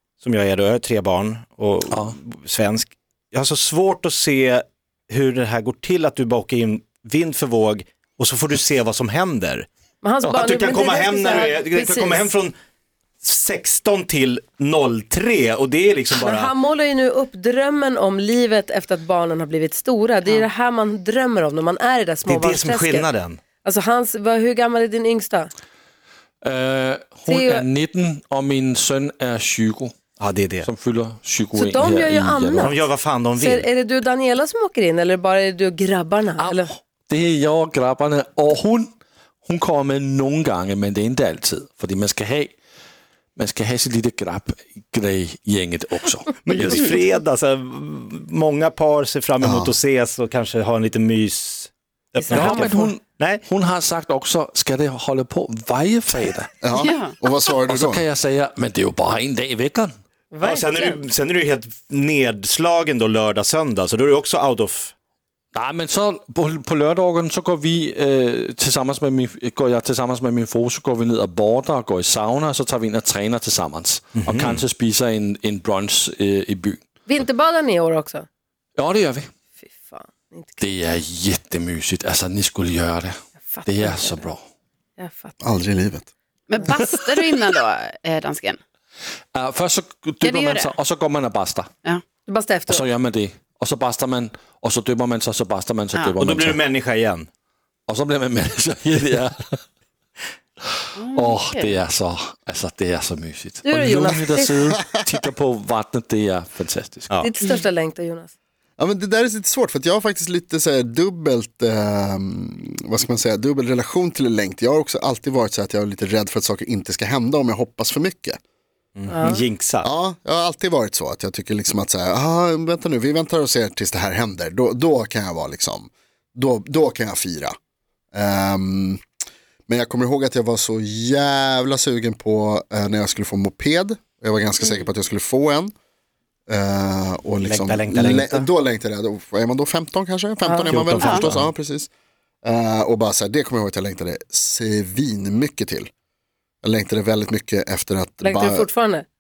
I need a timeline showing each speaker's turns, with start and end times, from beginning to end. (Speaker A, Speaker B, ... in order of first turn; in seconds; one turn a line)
Speaker A: 0.2-9.7
Speaker B: 10.0-12.3
Speaker A: 10.2-12.6
Speaker A: 13.2-16.5
Speaker B: 16.1-23.1
Speaker A: 22.3-23.4
Speaker B: 23.6-25.5
Speaker C: 26.4-29.9
Speaker B: 27.3-27.7
Speaker A: 30.2-30.7
Speaker C: 30.6-32.8
Speaker B: 31.5-36.7
Speaker A: 32.6-33.7
Speaker C: 36.4-38.9
Speaker C: 39.5-42.6
Speaker C: 43.4-47.0
Speaker A: 46.4-53.4
Speaker D: 49.4-49.8
Speaker C: 52.3-56.5
Speaker D: 56.6-58.0
Speaker E: 56.8-57.2
Speaker C: 57.7-59.9
Speaker B: 60.3-61.0
Speaker A: 60.4-64.9
Speaker C: 65.5-76.8
Speaker A: 74.1-74.7
Speaker B: 77.1-78.3
Speaker C: 78.8-79.3
Speaker B: 79.6-80.8
Speaker C: 80.6-84.4
Speaker B: 83.4-84.3
Speaker B: 85.0-85.4
Speaker D: 85.4-86.1
Speaker E: 86.5-88.6
Speaker C: 89.3-91.7
Speaker E: 90.2-90.7
Speaker B: 92.3-92.9
Speaker C: 92.7-96.6
Speaker A: 96.2-97.3
Speaker C: 97.9-99.6
Speaker C: 100.8-107.1
Speaker E: 101.0-101.8
Speaker B: 103.6-104.6
Speaker B: 107.2-108.3
Speaker D: 108.8-118.4
Speaker A: 119.0-119.9
Speaker B: 119.1-119.4
Speaker D: 119.8-127.5
Speaker D: 128.1-129.0
Speaker D: 129.7-135.7
Speaker D: 136.5-141.9
Speaker A: 137.4-138.5
Speaker B: 140.4-141.3
Speaker A: 140.7-141.5
Speaker E: 141.0-141.3
Speaker D: 142.4-145.9
Speaker D: 146.6-148.7
Speaker B: 148.2-149.1